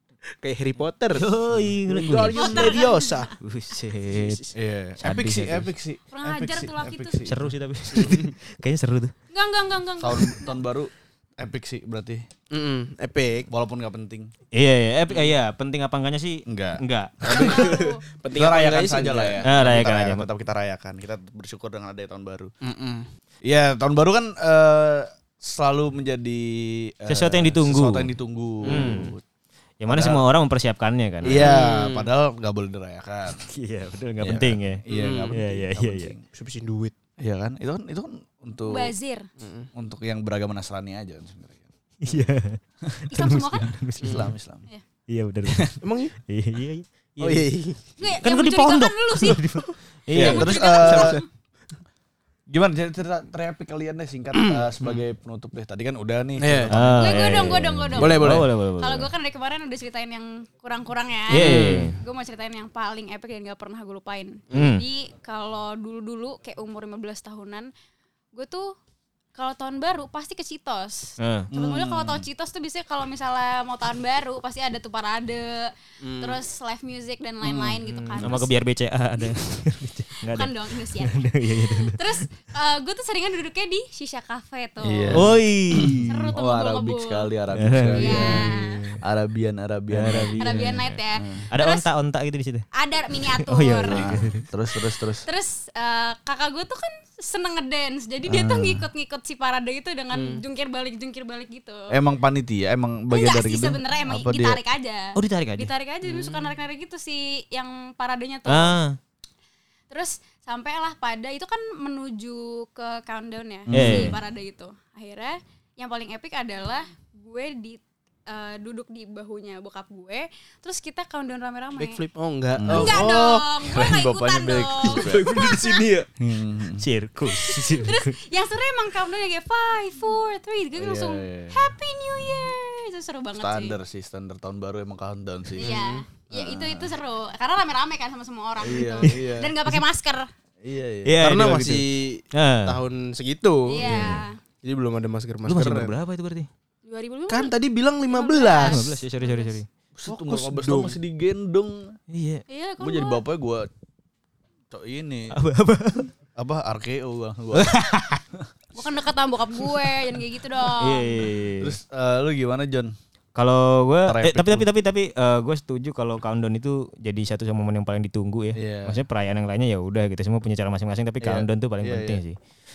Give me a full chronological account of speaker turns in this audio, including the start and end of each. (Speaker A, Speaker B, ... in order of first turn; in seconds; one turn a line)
Speaker A: 0.4-1.3
Speaker B: 1.1-2.8
Speaker A: 1.9-3.3
Speaker C: 2.3-3.2
Speaker B: 3.4-4.4
Speaker A: 4.1-4.5
Speaker D: 4.5-7.5
Speaker B: 5.0-5.7
Speaker C: 6.1-7.2
Speaker B: 7.2-9.1
Speaker A: 8.0-8.3
Speaker C: 9.3-10.6
Speaker D: 10.0-12.2
Speaker A: 12.5-13.5
Speaker D: 13.5-14.3
Speaker B: 14.5-17.5
Speaker D: 16.4-22.5
Speaker C: 17.3-18.0
Speaker A: 17.3-19.4
Speaker B: 19.4-20.2
Speaker A: 22.6-23.1
Speaker D: 23.4-29.2
Speaker B: 27.1-28.1
Speaker A: 28.6-28.9
Speaker B: 28.6-29.1
Speaker B: 29.8-31.4
Speaker D: 29.9-30.2
Speaker D: 31.2-33.4
Speaker C: 31.3-32.0
Speaker A: 31.3-31.6
Speaker B: 33.5-36.1
Speaker D: 34.2-36.2
Speaker A: 34.9-35.4
Speaker A: 36.3-36.9
Speaker D: 37.2-38.9
Speaker C: 38.7-39.3
Speaker A: 39.4-39.7
Speaker D: 39.7-42.2
Speaker B: 42.0-44.3
Speaker C: 43.1-43.8
Speaker D: 44.0-44.7
Speaker A: 44.0-44.3
Speaker B: 45.1-45.7
Speaker D: 45.5-45.8
Speaker A: 45.8-46.1
Speaker B: 46.3-47.5
Speaker A: 47.2-47.8
Speaker C: 48.0-49.5
Speaker B: 48.1-50.6
Speaker D: 50.1-51.2
Speaker A: 50.1-51.2
Speaker C: 50.2-51.2
Speaker D: 52.5-57.6
Speaker A: 54.4-55.0
Speaker A: 56.4-56.7
Speaker B: 56.7-59.1
Speaker C: 57.0-67.7
Speaker A: 58.0-58.5
Speaker B: 61.3-62.0
Speaker A: 61.3-61.9
Speaker B: 64.5-64.8
Speaker C: 68.3-68.7
Speaker C: 69.3-78.5
Speaker B: 71.2-71.5
Speaker D: 71.5-72.3
Speaker A: 76.0-76.4
Speaker D: 77.4-78.4
Speaker B: 77.9-82.2
Speaker C: 80.2-85.3
Speaker D: 84.8-88.5
Speaker B: 85.1-86.1
Speaker C: 86.0-88.8
Speaker B: 87.5-89.0
Speaker D: 89.0-91.5
Speaker B: 89.9-91.0
Speaker C: 90.4-91.9
Speaker B: 91.5-92.7
Speaker C: 92.7-94.0
Speaker B: 93.4-94.4
Speaker D: 93.9-95.2
Speaker C: 95.0-101.9
Speaker D: 98.3-98.8
Speaker A: 100.1-100.4
Speaker D: 101.9-104.6
Speaker C: 103.1-108.8
Speaker B: 105.1-105.7
Speaker A: 106.0-106.5
Speaker B: 108.5-109.0
Speaker C: 109.9-122.0
Speaker D: 113.7-114.2
Speaker B: 113.7-114.2
Speaker A: 121.8-123.2
Speaker D: 122.5-125.4
Speaker C: 122.7-125.9
Speaker A: 125.0-126.1
Speaker D: 126.2-126.8
Speaker B: 126.8-128.1
Speaker C: 127.2-133.8
Speaker D: 130.8-131.7
Speaker D: 133.3-135.8
Speaker C: 135.6-140.3
Speaker A: 135.6-136.0
Speaker D: 136.3-136.9
Speaker D: 138.6-139.6
Speaker D: 140.6-141.2
Speaker B: 141.0-141.8
Speaker A: 141.2-143.9
Speaker B: 142.3-142.8
Speaker C: 143.7-144.4
Speaker B: 143.8-144.3
Speaker A: 144.6-145.9
Speaker B: 145.4-146.5
Speaker C: 146.8-147.5
Speaker A: 147.3-148.8
Speaker C: 148.1-149.6
Speaker B: 148.6-149.7
Speaker D: 149.9-151.9
Speaker A: 150.1-151.0
Speaker B: 152.1-152.4
Speaker C: 152.5-153.2
Speaker D: 152.8-153.7
Speaker D: 154.7-155.3
Speaker B: 155.3-156.1
Speaker D: 156.4-157.7
Speaker B: 157.5-158.2
Speaker C: 158.7-161.2
Speaker B: 160.8-161.8
Speaker D: 161.6-162.9
Speaker B: 163.3-172.4
Speaker D: 164.1-164.7
Speaker D: 168.6-169.0
Speaker D: 171.2-172.2